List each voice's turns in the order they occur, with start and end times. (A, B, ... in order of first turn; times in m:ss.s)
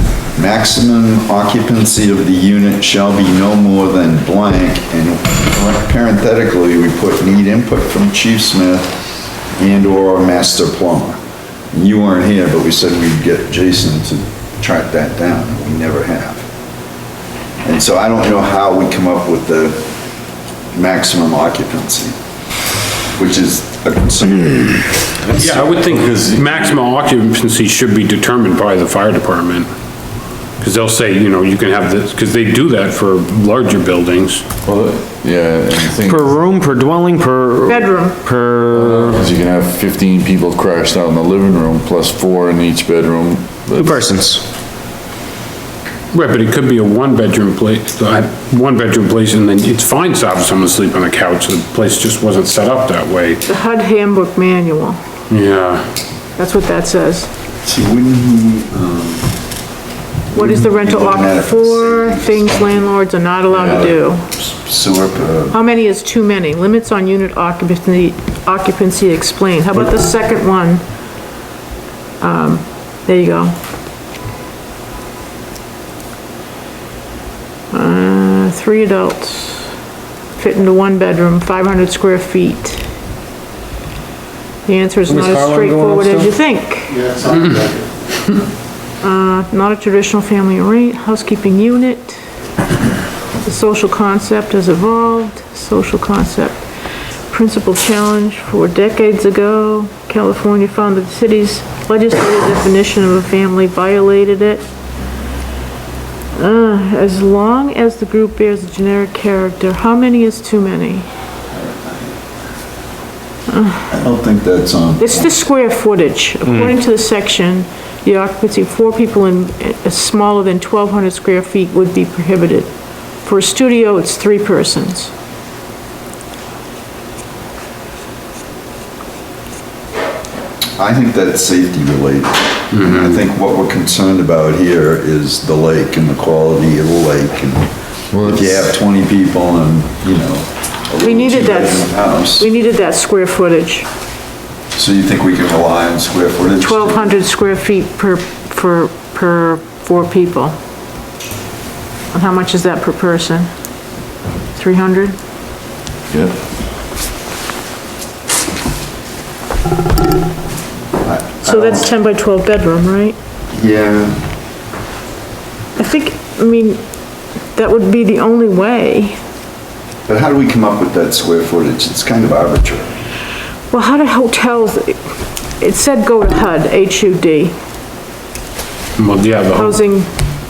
0:00.4-0:09.0 A
0:09.6-0:11.2 A
0:11.7-0:16.5 A
0:17.6-0:19.9 A
0:20.7-0:22.1 A
0:23.1-0:24.8 A
0:25.3-0:26.9 B
0:25.3-0:29.7 C
0:30.6-0:34.4 C
0:34.6-0:36.5 B
0:36.0-0:39.3 D
0:37.6-0:38.2 E
0:38.7-0:44.1 B
0:43.7-0:44.4 D
0:46.1-0:53.4 C
0:53.4-0:55.0 E
0:55.3-0:55.8 C
0:56.4-0:57.3 E
0:57.6-0:59.3 A
1:00.3-1:04.2 E
1:00.3-1:02.9 A
1:03.5-1:05.6 A
1:05.5-1:10.8 E
1:12.2-1:13.5 E
1:17.7-1:19.7 E
1:20.4-1:22.8 E
1:24.6-1:27.1 E
1:25.1-1:26.3 D
1:27.3-1:27.7 C
1:29.0-1:32.2 E
1:33.4-1:36.6 E
1:37.3-1:44.6 E
1:46.4-1:51.1 E
1:53.5-1:53.8 E
1:53.9-1:55.4 A
1:55.0-2:02.7 E
1:56.4-1:56.8 D
2:03.2-2:05.1 E
2:10.8-2:17.7 A
2:12.7-2:13.2 C
2:18.1-2:18.7 B
2:18.2-2:22.5 A
2:21.0-2:23.8 E
2:24.7-2:27.2 A
2:26.6-2:30.6 E
2:32.1-2:33.5 E
2:34.6-2:35.2 E
2:36.1-2:36.3 B
2:41.0-2:41.9 A
2:41.4-2:43.2 E
2:43.5-2:44.2 A
2:45.8-2:46.8 E
2:47.5-2:49.2 E
2:50.1-2:53.0 A
2:53.7-2:55.0 E
2:55.6-2:57.5 E
2:59.0-2:59.8 C
2:59.5-3:00.1 E